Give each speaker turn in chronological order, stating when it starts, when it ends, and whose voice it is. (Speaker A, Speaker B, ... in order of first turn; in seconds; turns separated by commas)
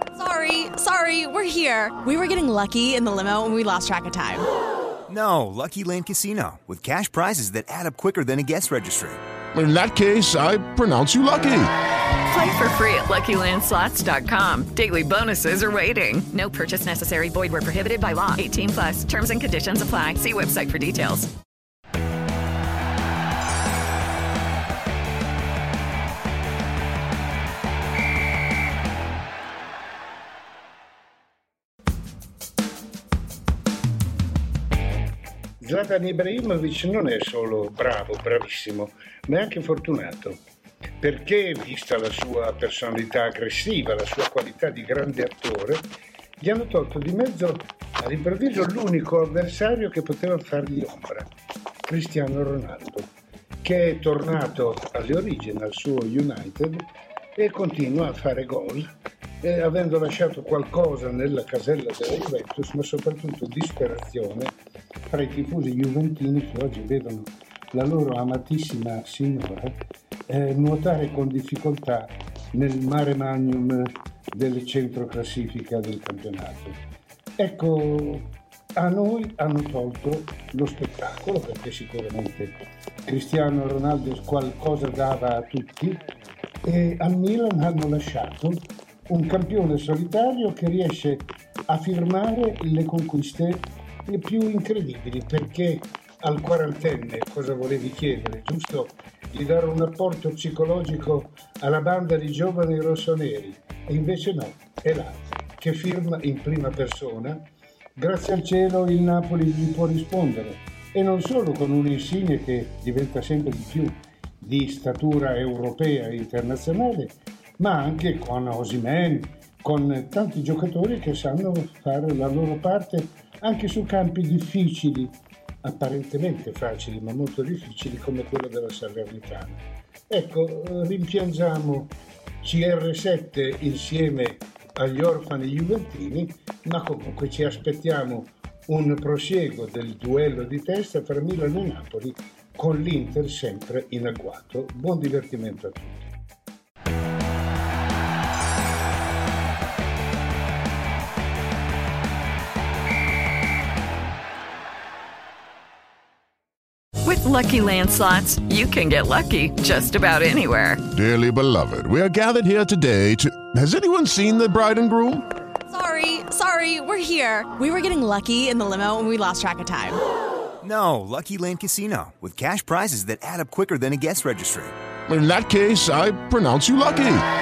Speaker A: 0.2-4.5, Speaker B: 5.1-9.2, Speaker C: 9.5-11.7, Speaker D: 12.3-21.3, Speaker E: 35.6-40.4, Speaker E: 41.0-45.9, Speaker E: 46.4-51.3, Speaker E: 51.9-53.1, Speaker E: 53.6-64.5, Speaker E: 65.1-69.8, Speaker E: 70.3-76.8, Speaker E: 77.4-86.0, Speaker E: 86.6-107.5, Speaker E: 108.0-146.1, Speaker D: 157.0-160.8, Speaker C: 160.9-165.3, Speaker A: 165.7-170.0, Speaker B: 170.6-174.8, Speaker C: 175.1-177.2